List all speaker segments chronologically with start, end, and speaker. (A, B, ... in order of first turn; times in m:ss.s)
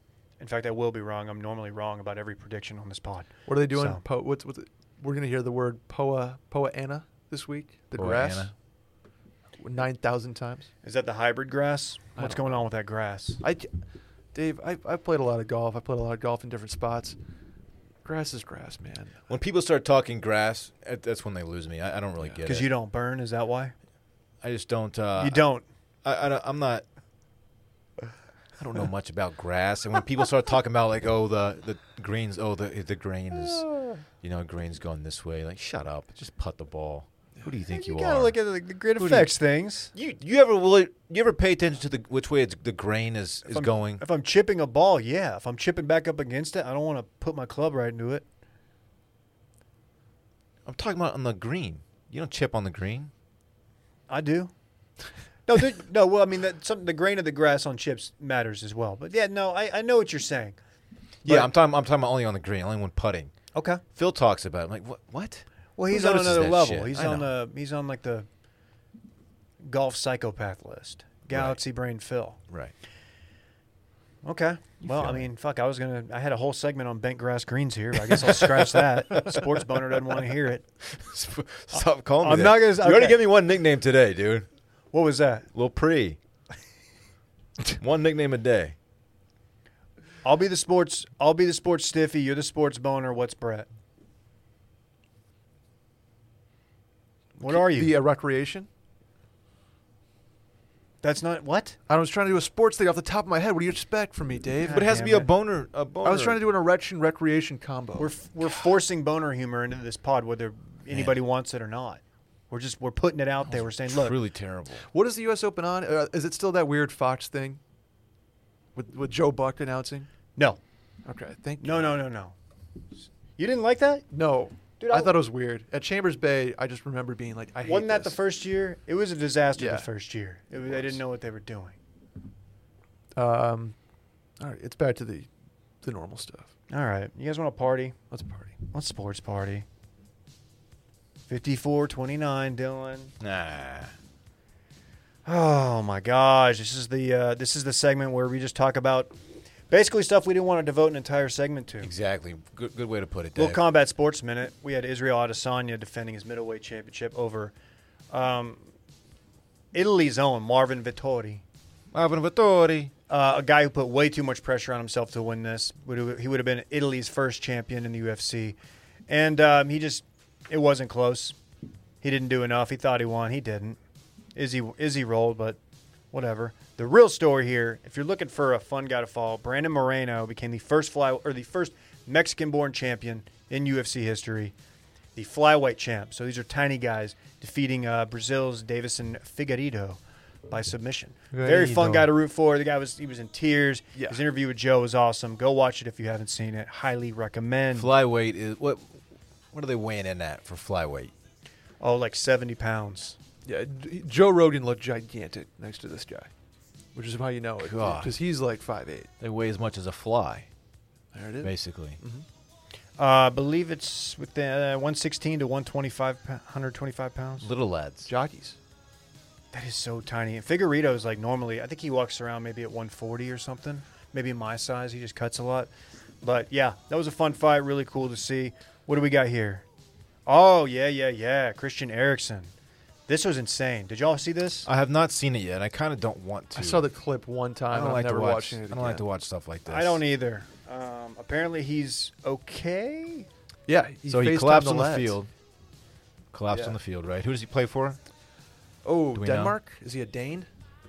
0:00.4-0:04.0 A
0:03.4-0:08.5 B
0:07.9-0:08.5 C
0:09.6-0:10.7 B
0:10.8-0:13.4 A
0:12.2-0:12.6 B
0:13.4-0:13.7 B
0:14.3-0:17.2 B
0:18.0-0:19.2 B
0:19.3-0:22.7 C
0:22.4-0:23.7 A
0:24.4-0:25.4 C
0:25.2-0:25.6 A
0:26.0-0:26.8 C
0:28.6-0:38.4 C
0:33.7-0:33.9 A
0:37.7-0:39.9 A
0:39.0-0:39.3 C
0:39.9-0:44.0 C
0:43.4-0:48.2 A
0:50.6-0:53.1 C
0:54.1-0:54.5 A
0:55.5-1:00.6 A
1:01.2-1:03.3 C
1:03.5-1:03.8 A
1:03.9-1:07.3 C
1:05.8-1:08.3 A
1:09.6-1:12.4 A
1:11.3-1:11.6 C
1:12.5-1:12.7 C
1:14.2-1:20.6 A
1:14.8-1:15.3 C
1:18.1-1:19.4 C
1:20.8-1:24.5 C
1:21.7-1:23.2 A
1:24.9-1:25.5 A
1:25.5-1:26.2 C
1:27.7-1:28.8 C
1:30.2-1:33.7 A
1:37.4-1:38.7 B
1:37.4-1:38.0 A
1:41.0-1:41.8 A
1:41.9-1:44.9 B
1:44.6-1:45.3 A
1:44.6-1:46.4 C
1:46.0-1:48.2 B
1:48.0-1:54.2 A
1:50.9-1:51.2 C
1:53.5-1:54.9 C
1:54.8-1:57.6 B
1:58.7-2:00.1 B
2:01.0-2:02.0 B
2:01.6-2:02.3 A
2:03.4-2:04.0 A
2:04.1-2:08.2 B
2:04.8-2:05.1 A
2:07.6-2:11.8 A
2:09.6-2:09.9 B
2:10.7-2:11.0 B
2:13.2-2:13.8 B
2:14.4-2:15.3 B
2:15.8-2:16.5 B
2:16.7-2:18.0 A
2:18.1-2:18.6 B
2:18.7-2:19.6 A
2:21.3-2:23.1 A
2:23.2-2:23.9 C
2:25.2-2:29.2 A
2:29.7-2:31.9 A
2:31.8-2:33.6 C
2:33.3-2:37.5 A
2:38.1-2:38.7 A
2:39.7-2:41.4 A
2:41.9-2:42.9 C
2:43.1-2:48.6 A
2:49.1-2:51.4 A
2:52.0-2:53.8 A
2:54.3-2:55.6 A
2:56.1-3:04.5 A
3:05.2-3:17.9 A
3:11.3-3:12.1 B
3:11.6-3:12.0 C
3:13.9-3:14.2 B
3:17.7-3:21.1 C
3:21.8-3:23.2 A
3:23.4-3:26.3 B
3:26.9-3:29.1 B
3:27.6-3:28.1 C
3:29.2-3:30.5 C
3:31.1-3:32.2 B
3:31.4-3:32.0 C
3:33.0-3:37.5 A
3:37.4-3:38.1 C
3:38.0-3:38.6 B
3:39.5-3:45.7 A
3:46.2-3:49.6 A
3:50.2-3:52.5 A
3:53.1-3:54.7 A
3:54.6-3:56.9 C
3:56.5-3:59.0 B
3:57.7-4:00.0 C
3:59.7-4:03.3 A
4:03.7-4:05.2 B
4:04.1-4:05.3 C
4:06.3-4:08.0 C
4:06.5-4:06.8 B
4:08.8-4:10.5 B
4:09.1-4:09.6 C